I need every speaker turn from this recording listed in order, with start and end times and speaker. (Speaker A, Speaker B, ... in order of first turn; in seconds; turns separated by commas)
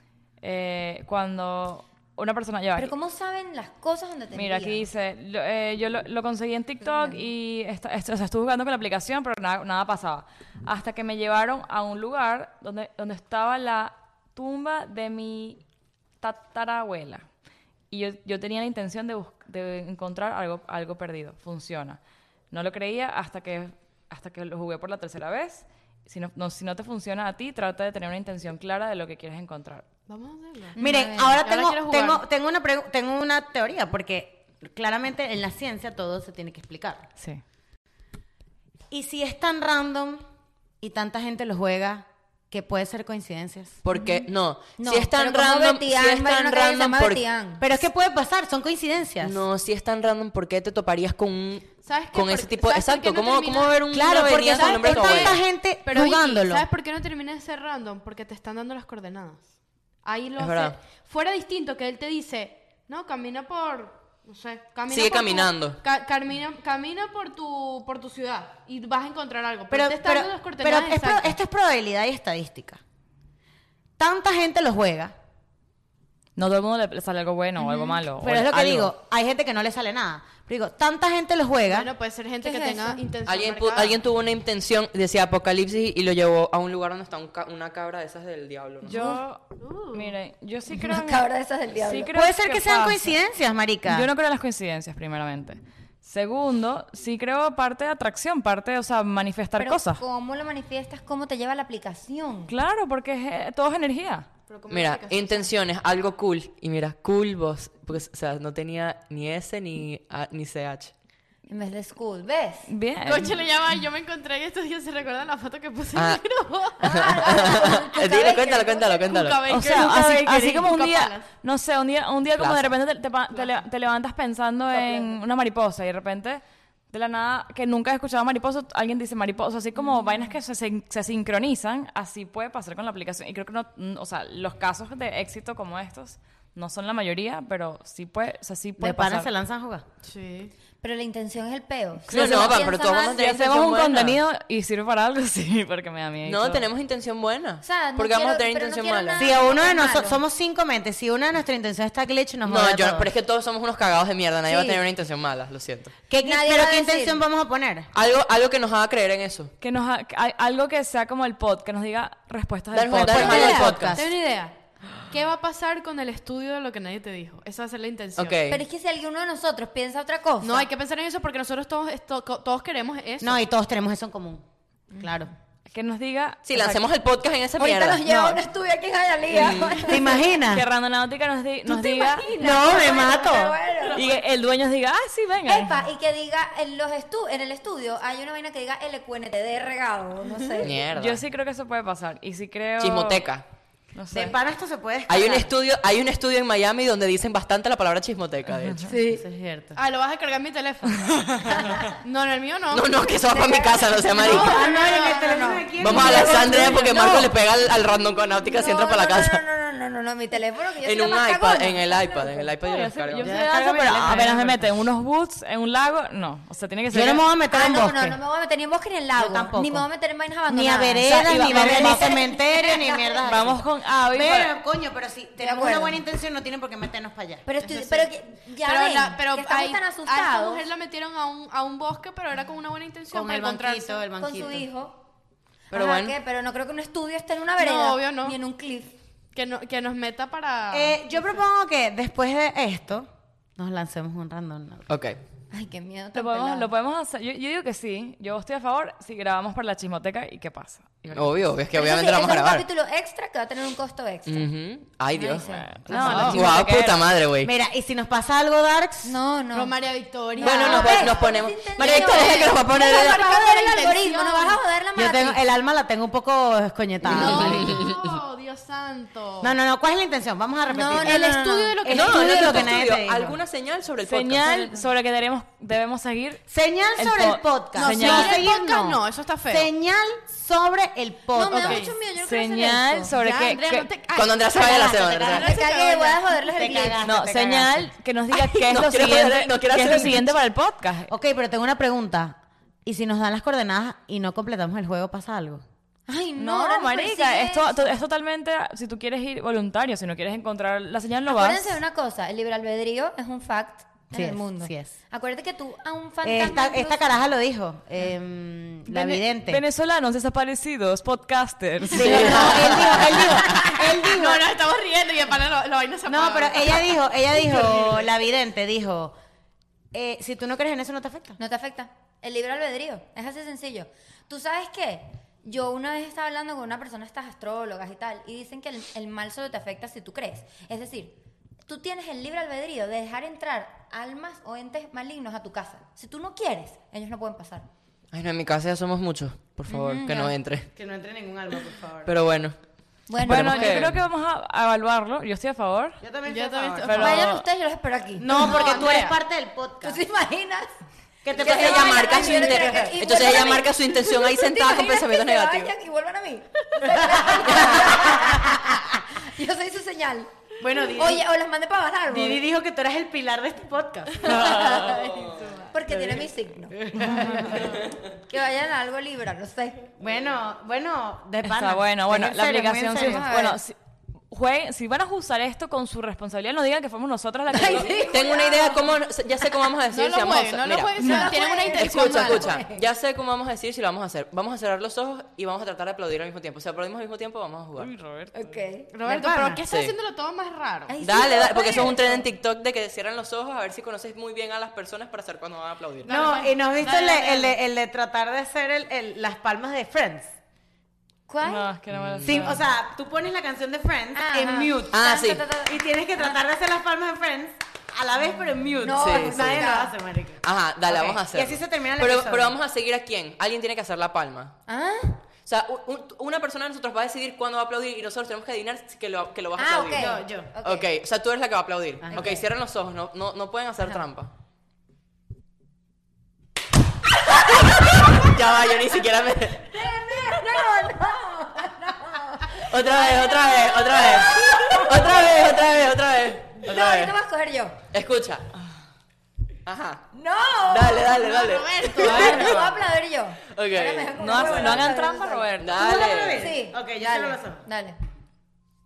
Speaker A: 0.4-2.9, Speaker B: 2.7-4.9, Speaker A: 4.3-15.6, Speaker B: 6.9-7.2, Speaker A: 16.2-17.3, Speaker A: 17.9-22.0, Speaker A: 22.5-29.8, Speaker C: 30.1-30.8, Speaker B: 30.8-31.4, Speaker D: 30.8-37.1, Speaker C: 31.3-32.2, Speaker D: 38.9-40.2, Speaker D: 40.8-43.8, Speaker E: 43.8-47.2, Speaker B: 43.9-44.2, Speaker B: 44.8-47.7, Speaker D: 47.6-49.4, Speaker E: 49.2-55.4, Speaker C: 51.8-59.5, Speaker D: 53.9-56.6, Speaker C: 60.0-71.4, Speaker E: 60.4-60.8, Speaker E: 64.9-65.8, Speaker D: 69.7-72.8, Speaker D: 74.0-75.1, Speaker A: 76.3-78.9, Speaker B: 77.6-78.0, Speaker D: 78.2-81.9, Speaker C: 81.7-84.0, Speaker B: 82.4-83.0, Speaker E: 83.2-89.2, Speaker A: 88.8-91.2, Speaker C: 89.6-90.1, Speaker B: 90.7-92.1, Speaker A: 91.8-93.1, Speaker D: 92.1-94.1, Speaker A: 93.9-100.0, Speaker B: 99.6-102.5, Speaker A: 102.5-104.3, Speaker C: 104.5-105.5, Speaker E: 104.7-110.9, Speaker B: 111.5-112.7, Speaker A: 112.7-113.4, Speaker C: 113.0-117.8, Speaker E: 115.9-116.2, Speaker E: 116.8-119.4, Speaker B: 116.8-119.0, Speaker C: 118.9-120.1, Speaker A: 119.5-139.3, Speaker D: 119.6-120.7, Speaker C: 120.6-121.3, Speaker E: 122.4-122.7, Speaker B: 124.7-125.2, Speaker D: 138.8-139.8, Speaker C: 140.0-140.5, Speaker B: 140.8-143.2, Speaker E: 142.1-144.2, Speaker A: 143.2-146.7, Speaker E: 146.2-149.3, Speaker B: 147.6-150.2, Speaker D: 149.2-153.1, Speaker E: 152.4-155.9, Speaker B: 154.5-154.8, Speaker D: 156.1-157.9, Speaker B: 156.2-157.2, Speaker E: 157.9-159.5, Speaker A: 159.6-163.7, Speaker E: 162.7-164.0, Speaker D: 162.9-164.1, Speaker B: 163.2-163.5, Speaker C: 163.2-164.6, Speaker C: 165.1-168.4, Speaker E: 168.2-168.6, Speaker B: 168.5-170.7, Speaker C: 170.4-173.4, Speaker D: 173.2-174.4, Speaker D: 175.0-175.3, Speaker A: 175.7-176.8, Speaker E: 176.4-178.4, Speaker B: 177.6-180.4, Speaker E: 179.3-180.0, Speaker D: 179.8-180.7, Speaker A: 180.5-182.3, Speaker B: 181.7-184.0, Speaker D: 182.3-183.5, Speaker C: 183.8-184.1, Speaker A: 183.9-185.8, Speaker B: 185.4-190.8, Speaker E: 190.6-191.2, Speaker A: 190.9-193.2, Speaker E: 192.8-193.4, Speaker A: 193.9-194.4, Speaker D: 194.1-195.5, Speaker E: 195.1-198.9, Speaker B: 198.8-199.2, Speaker D: 199.0-199.8, Speaker C: 199.7-202.9, Speaker A: 201.0-201.6, Speaker E: 202.7-204.6, Speaker B: 203.3-206.7, Speaker C: 204.2-206.6, Speaker D: 204.2-207.3, Speaker E: 205.8-209.4, Speaker B: 208.4-212.5, Speaker E: 210.8-213.3, Speaker A: 212.6-217.2, Speaker D: 213.2-214.6, Speaker D: 216.9-218.2, Speaker B: 217.5-223.4, Speaker D: 219.2-219.9, Speaker D: 220.5-227.4, Speaker A: 221.1-222.2, Speaker A: 223.2-224.5, Speaker B: 225.4-226.0, Speaker B: 227.4-230.7, Speaker C: 227.6-228.1, Speaker C: 228.6-234.0, Speaker D: 233.1-234.7, Speaker B: 234.2-235.0, Speaker B: 235.7-238.9, Speaker E: 235.7-236.1, Speaker C: 237.6-238.4, Speaker C: 239.3-241.4, Speaker D: 240.7-244.9, Speaker E: 244.9-245.2, Speaker B: 245.5-246.7, Speaker A: 246.1-251.3, Speaker E: 251.1-252.6, Speaker B: 251.7-254.5, Speaker E: 254.3-257.5, Speaker B: 255.1-256.3, Speaker A: 255.4-257.1, Speaker D: 255.9-256.4, Speaker C: 256.1-256.3, Speaker D: 257.4-259.1, Speaker B: 259.0-259.7, Speaker C: 259.5-261.3, Speaker B: 260.3-265.4, Speaker E: 260.4-263.2, Speaker C: 261.8-264.6, Speaker D: 264.9-267.8, Speaker E: 267.1-268.1, Speaker C: 267.1-269.5, Speaker D: 269.4-273.4, Speaker B: 270.7-271.8, Speaker C: 270.9-272.7, Speaker E: 271.9-274.8, Speaker A: 274.0-276.4, Speaker D: 276.5-281.8, Speaker A: 276.9-278.5, Speaker C: 277.8-279.7, Speaker B: 281.3-283.1, Speaker C: 281.5-282.0, Speaker A: 282.1-283.9, Speaker C: 283.0-286.4, Speaker E: 284.1-285.5, Speaker D: 284.6-285.5, Speaker B: 285.4-287.0, Speaker D: 286.6-287.9, Speaker A: 287.0-291.1, Speaker E: 288.3-290.4, Speaker D: 291.1-295.6, Speaker B: 296.1-298.0, Speaker A: 296.4-301.8, Speaker B: 301.2-307.0, Speaker D: 304.1-304.9, Speaker D: 306.2-309.6, Speaker A: 308.9-312.8, Speaker C: 311.9-318.2, Speaker D: 311.9-314.4, Speaker B: 312.0-313.6, Speaker E: 312.0-313.3, Speaker D: 316.1-319.1, Speaker D: 319.9-321.4, Speaker B: 321.4-337.7, Speaker E: 338.1-340.7, Speaker B: 339.7-340.3, Speaker D: 340.7-342.1, Speaker E: 342.1-342.5, Speaker B: 343.1-343.9, Speaker A: 343.2-346.0, Speaker E: 343.2-344.0, Speaker D: 346.0-347.2, Speaker C: 346.2-347.3, Speaker A: 346.8-347.4, Speaker B: 346.9-349.0, Speaker D: 348.2-350.0, Speaker C: 348.3-349.1, Speaker B: 349.8-350.7, Speaker D: 351.2-353.2, Speaker B: 351.3-362.4, Speaker E: 351.4-355.7, Speaker D: 356.8-358.9, Speaker D: 360.6-361.2, Speaker D: 362.1-364.7, Speaker A: 364.2-365.0, Speaker B: 364.3-365.1, Speaker C: 364.4-365.7, Speaker E: 364.9-365.2, Speaker B: 365.7-367.6, Speaker D: 366.9-367.8, Speaker A: 366.9-367.5, Speaker B: 368.3-369.9, Speaker D: 370.0-373.3, Speaker A: 371.4-373.8, Speaker B: 372.9-373.6, Speaker A: 374.3-378.1, Speaker B: 377.5-378.9, Speaker E: 378.1-387.9, Speaker C: 379.9-382.5, Speaker B: 381.0-382.8, Speaker A: 381.0-381.3, Speaker A: 387.8-388.6, Speaker B: 388.3-388.9, Speaker C: 388.9-390.9, Speaker D: 389.1-389.6, Speaker E: 389.7-389.9, Speaker B: 390.9-392.2, Speaker E: 391.0-396.1, Speaker C: 396.0-397.5, Speaker D: 396.0-400.3, Speaker B: 401.3-401.7, Speaker A: 401.4-402.6, Speaker E: 401.9-402.5, Speaker D: 402.2-412.6, Speaker B: 404.1-405.7, Speaker E: 404.9-405.4, Speaker B: 408.8-409.9, Speaker E: 408.9-409.7, Speaker E: 410.4-414.6, Speaker B: 414.7-415.2, Speaker E: 415.4-424.3, Speaker B: 419.6-420.9, Speaker D: 419.9-420.5, Speaker D: 422.0-422.4, Speaker B: 422.1-422.4, Speaker E: 427.5-429.7, Speaker B: 429.7-435.6, Speaker E: 432.6-437.1, Speaker B: 436.6-437.8, Speaker E: 437.9-438.5, Speaker E: 439.6-440.1, Speaker B: 440.1-441.4, Speaker E: 440.6-442.4, Speaker C: 441.1-442.7, Speaker B: 441.9-448.0, Speaker A: 442.0-442.7, Speaker E: 443.5-444.9, Speaker A: 444.1-445.8, Speaker E: 445.6-446.5, Speaker D: 445.8-447.6